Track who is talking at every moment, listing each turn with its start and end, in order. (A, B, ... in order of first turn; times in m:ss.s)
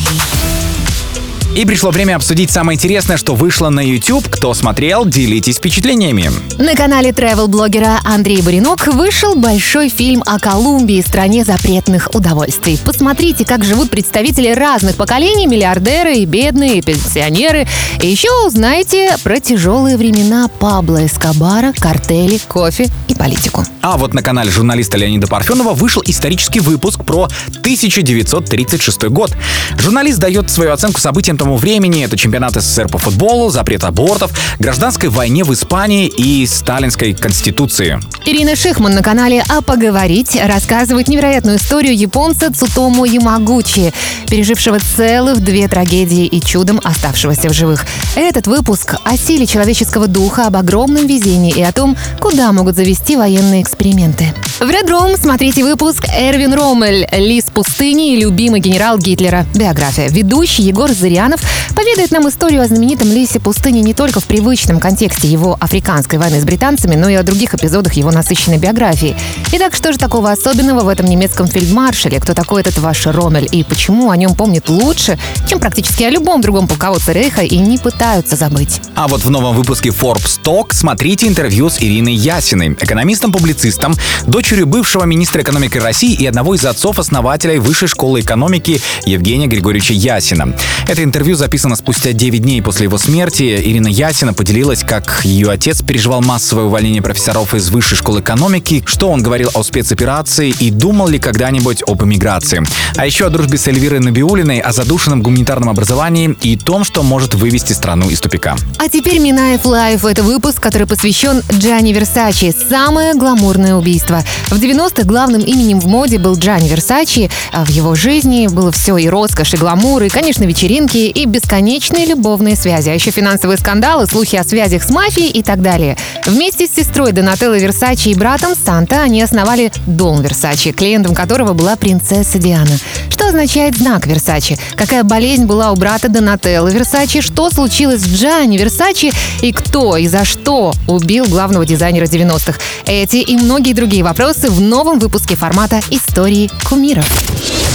0:01.5-0:06.4 A
0:06.6-0:23.7 B
0:23.8-0:38.0 A
0:38.2-1:18.8 B
1:18.9-1:48.6 A
1:48.8-2:27.1 B